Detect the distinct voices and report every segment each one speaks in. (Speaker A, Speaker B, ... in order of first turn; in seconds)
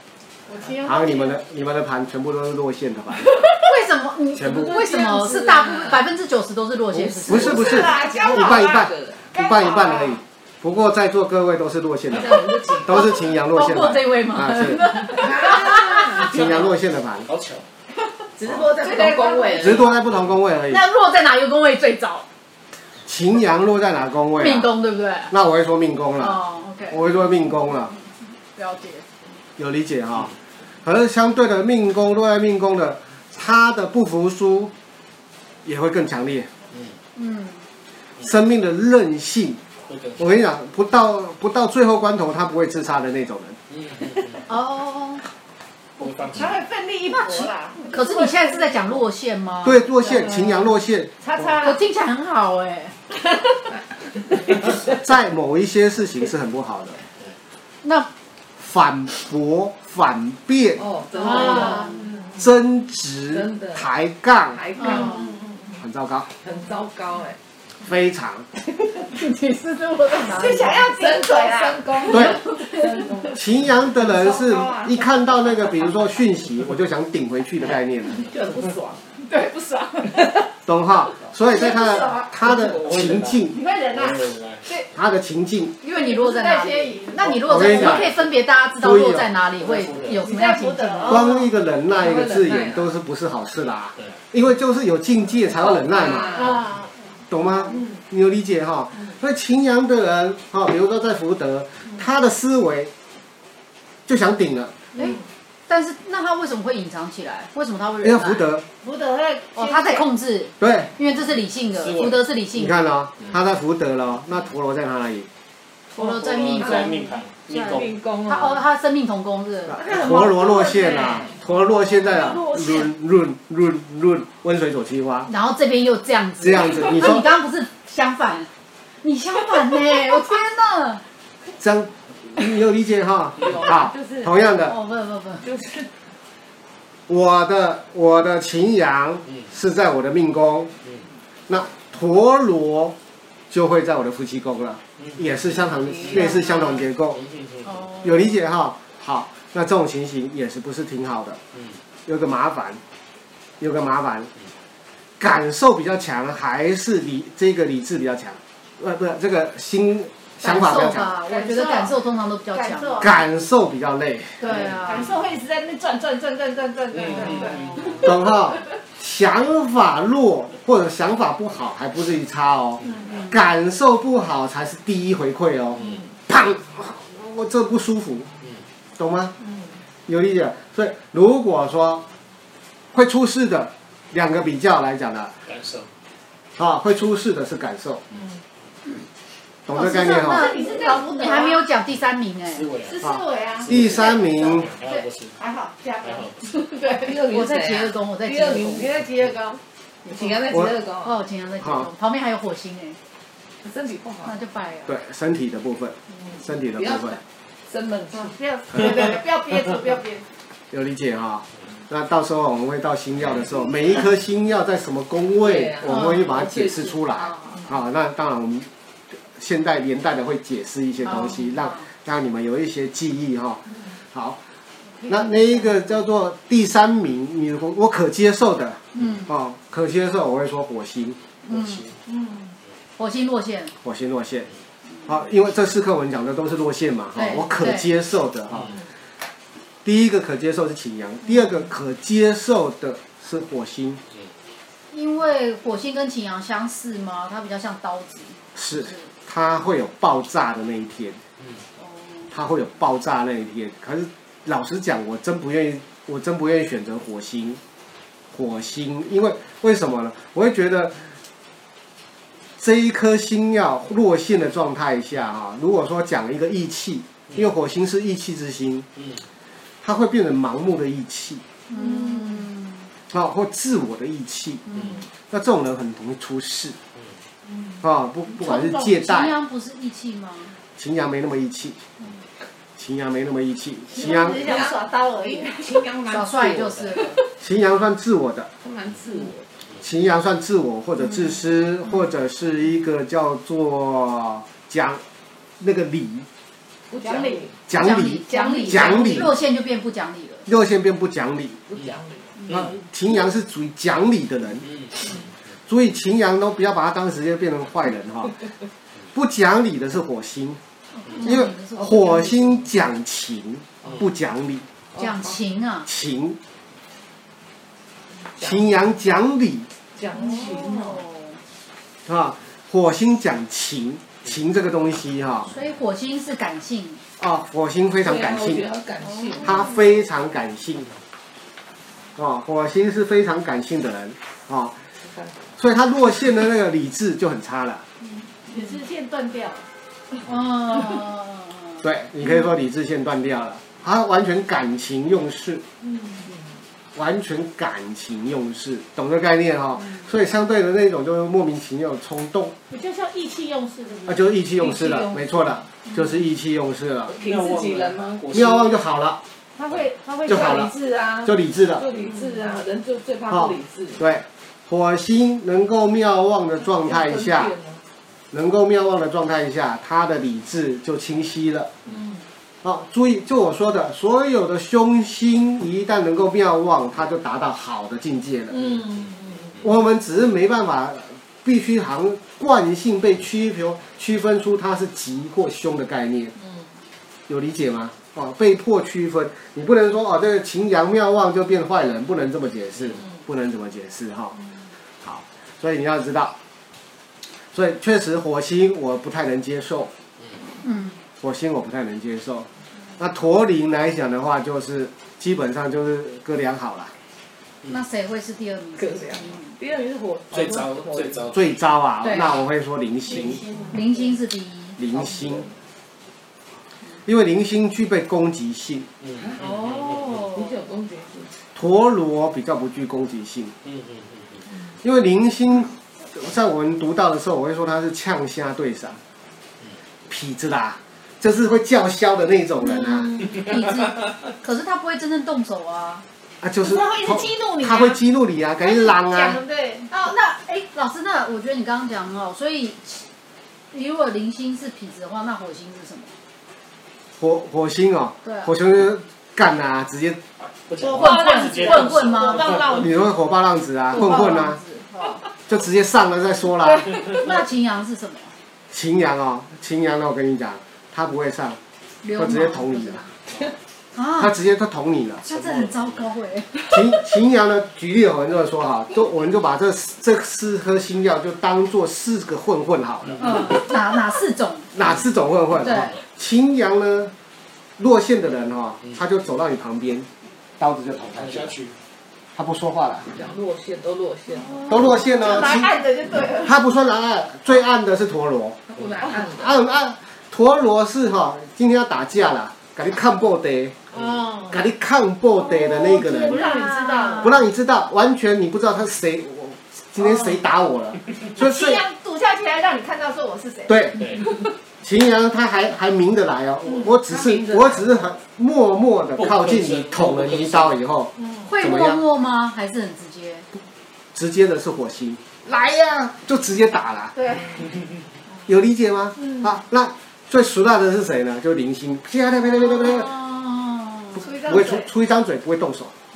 Speaker A: 0.5-1.4, 7.6-8.8, 9.3-10.2, 18.8-19.6, 46.2-48.7, 50.0-50.5, 51.2-51.8, 61.2-62.3, 64.8-65.2, 70.0-73.4, 74.0-74.9, 79.2-80.4, 81.5-82.3, 83.5-84.9, 85.9-88.1, 90.2-91.5, 96.3-97.0, 108.8-110.0, 122.4-122.7, 161.3-161.9, 162.5-163.2, 164.4-168.1, 172.8-173.3, 190.1-191.6, 192.8-197.1, 198.9-199.6, 208.1-210.2, 232.1-232.5, 283.9-285.7, 297.0-297.5, 298.3-299.2, 338.0-339.6, 345.8-346.2, 352.7-354.2, 359.6-360.8, 413.2-413.8, 419.8-420.2, 436.6-438.0, 438.8-440.1, 450.8-452.9, 484.3-486.6, 493.9-494.6, 495.5-497.3, 501.4-504.5, 517.1-517.6, 519.2-519.5, 524.2-524.9
Speaker B: 0.8-3.3, 4.3-4.7, 6.9-15.0, 16.2-17.3, 19.6-20.8, 23.1-24.7, 25.3-27.9, 29.6-30.3, 30.8-34.7, 35.6-36.5, 38.2-39.6, 40.2-43.6, 49.6-51.1, 54.9-57.0, 58.6-60.8, 62.4-64.6, 65.8-66.3, 67.8-68.5, 72.1-72.4, 73.3-78.3, 80.7-83.5, 84.9-85.7, 87.2-88.1, 88.8-89.3, 91.0-96.5, 97.3-102.9, 104.1-104.8, 108.0-108.6, 110.6-110.9, 112.5-115.3, 119.7-125.3, 126.4-127.2, 131.6-134.8, 137.1-140.7, 141.5-142.9, 143.5-147.2, 148.0-151.4, 152.1-152.8, 153.6-154.3, 155.2-161.1, 163.0-164.4, 168.0-178.3, 179.0-179.3, 180.1-182.0, 182.9-185.3, 186.6-188.0, 189.7-190.5, 193.0-194.7, 201.6-201.9, 204.9-207.2, 210.7-218.7, 219.2-224.4, 225.1-231.2, 233.8-234.5, 235.0-238.7, 239.8-244.0, 248.5-251.2, 252.3-257.6, 258.3-261.0, 262.6-268.9, 269.8-271.4, 273.1-274.6, 275.3-276.8, 277.8-279.3, 280.8-281.8, 282.8-284.6, 287.4-288.5, 289.8-295.0, 295.6-296.3, 297.7-299.4, 300.4-301.6, 302.5-304.7, 305.7-308.3, 309.1-310.6, 311.2-314.6, 315.9-316.4, 318.4-319.7, 322.1-325.5, 327.2-328.6, 329.4-330.9, 332.1-334.8, 335.6-337.8, 341.8-345.6, 346.9-352.5, 354.1-357.1, 358.3-359.2, 360.2-360.7, 361.2-361.9, 363.3-367.5, 368.3-371.7, 372.6-378.6, 379.6-386.3, 387.3-394.4, 395.0-396.3, 397.5-399.9, 401.2-406.9, 411.3-413.4, 414.8-415.5, 417.1-418.9, 421.5-423.5, 424.8-429.0, 430.1-433.1, 436.4-439.4, 447.2-450.2, 452.7-454.6, 455.5-456.9, 458.7-461.6, 462.1-463.0, 464.2-465.6, 466.7-473.4, 474.7-477.1, 477.8-480.1, 480.6-481.5, 482.3-483.1, 484.7-485.8, 486.4-488.6, 489.2-493.8, 494.5-496.4, 497.2-501.8, 503.7-504.0, 504.8-512.0, 514.1-517.1, 518.5-523.1, 524.4-525.9
Speaker C: 3.5-7.7, 13.3-16.1, 20.7-22.2, 24.4-25.3, 26.2-27.0, 28.5-29.0, 37.1-37.7, 44.5-45.2, 47.3-49.8, 51.6-52.9, 57.8-58.1, 61.3-62.0, 64.8-65.2, 69.2-70.7, 85.8-91.3, 105.7-108.5, 109.5-112.7, 116.0-117.5, 118.3-119.8, 125.2-128.5, 129.0-131.0, 134.6-135.4, 147.6-148.3, 160.4-163.1, 164.5-164.9, 189.7-192.7, 197.3-198.9, 201.0-203.0, 204.2-204.9, 215.9-216.7, 221.0-221.9, 228.9-229.3, 231.4-231.9, 233.0-233.7, 237.1-237.9, 244.9-249.1, 251.8-252.3, 271.7-272.9, 278.3-280.6, 286.1-287.2, 291.0-291.3, 297.7-300.4, 310.9-312.7, 314.9-315.9, 320.1-321.4, 325.5-327.0, 340.2-341.8, 400.6-401.0, 407.6-409.6, 412.0-412.4, 413.7-414.8, 433.1-436.0, 439.9-443.0, 443.7-446.1, 448.2-448.5, 450.9-452.6, 453.9-455.2, 456.9-458.3, 462.0-463.1, 463.9-464.3, 465.2-466.9, 473.2-474.7, 475.6-476.0, 496.0-497.3, 511.4-513.5, 522.4-524.3
Speaker D: 4.4-6.0, 7.3-9.3, 12.1-13.2, 15.1-16.8, 18.4-20.0, 53.7-55.0, 60.8-62.0, 63.3-63.9, 64.5-65.5, 66.4-67.4, 70.5-73.4, 78.1-79.2, 92.0-92.9, 95.5-96.7, 116.0-117.0, 117.5-118.6, 119.8-121.4, 133.4-134.3, 135.4-135.9, 145.8-146.8, 188.1-188.4, 196.8-199.0, 200.1-201.1, 203.6-204.3, 206.2-208.3, 215.4-216.2, 284.0-287.0, 288.6-289.4, 296.9-297.5, 301.7-302.4, 314.9-315.4, 318.3-318.7, 319.9-321.0, 328.0-329.6, 335.0-335.4, 354.6-355.3, 357.1-358.2, 360.2-364.0, 366.8-367.8, 371.9-372.2, 378.5-379.6, 408.8-411.3, 414.9-415.5, 419.1-421.4, 483.1-484.7, 488.7-489.6, 506.6-508.1
Speaker E: 17.3-17.6, 39.9-40.2, 43.7-44.4, 46.0-46.6, 82.4-84.7, 89.6-90.2, 111.8-112.2, 116.1-117.9, 185.5-185.9, 192.5-193.0, 193.6-195.3, 196.0-196.4, 357.2-358.7, 410.3-411.3, 450.7-452.7, 481.2-481.7, 504.0-504.2, 509.2-510.7